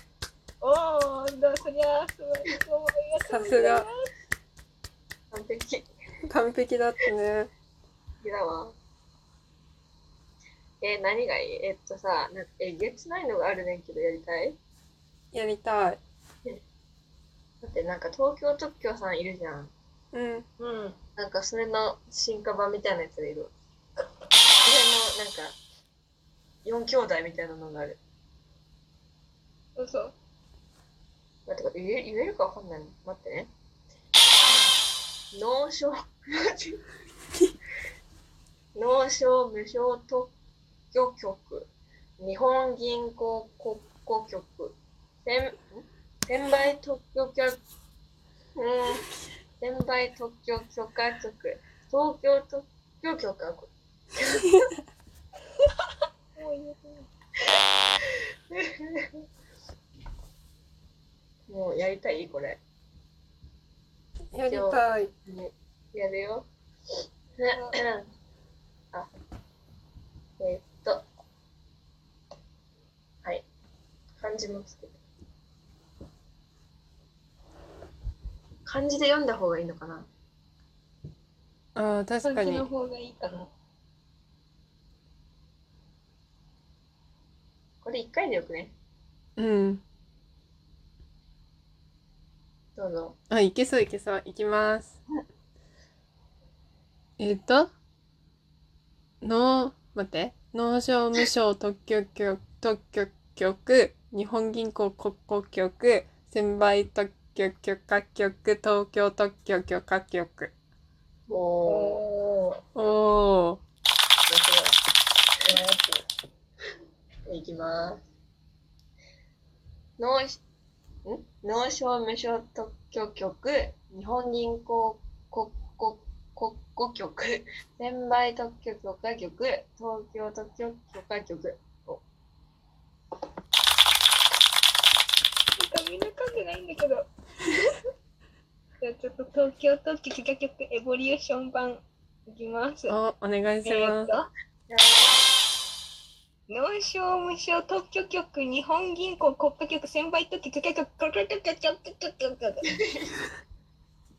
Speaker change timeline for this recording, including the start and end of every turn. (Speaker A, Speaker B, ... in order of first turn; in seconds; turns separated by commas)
Speaker A: 0.6-4.1, Speaker B: 3.2-3.9, Speaker C: 5.3-5.8, Speaker B: 6.2-7.5, Speaker C: 8.2-8.8, Speaker C: 10.8-14.6, Speaker B: 15.3-16.0, Speaker C: 17.6-19.7, Speaker B: 20.1-20.4, Speaker A: 20.6-21.0, Speaker C: 21.1-23.5, Speaker C: 24.6-25.6, Speaker C: 26.6-28.0, Speaker A: 29.8-30.1, Speaker C: 31.5-33.5, Speaker C: 35.3-36.8, Speaker C: 38.7-40.3, Speaker C: 40.9-47.6, Speaker C: 48.6-49.1, Speaker C: 49.6-54.5, Speaker A: 56.3-57.1, Speaker C: 58.5-59.1, Speaker C: 61.5-62.6, Speaker B: 64.3-65.1, Speaker C: 64.5-66.5, Speaker C: 67.4-68.1, Speaker A: 67.5-67.8, Speaker C: 70.4-71.0, Speaker C: 74.2-75.0, Speaker C: 78.6-80.1, Speaker B: 81.8-82.7, Speaker A: 82.2-83.5, Speaker C: 87.8-88.7, Speaker B: 89.4-89.8, Speaker C: 92.8-93.2, Speaker B: 93.3-95.0, Speaker B: 97.2-97.7, Speaker B: 99.2-110.5, Speaker C: 111.3-112.0, Speaker A: 111.7-112.6, Speaker B: 112.7-113.6, Speaker C: 114.3-114.8, Speaker A: 115.5-115.9, Speaker C: 117.2-118.0, Speaker C: 120.0-120.4, Speaker C: 121.0-132.0, Speaker A: 135.6-137.1, Speaker A: 138.8-143.0, Speaker B: 142.9-144.1, Speaker A: 143.6-144.3, Speaker C: 144.7-145.2, Speaker A: 146.5-152.7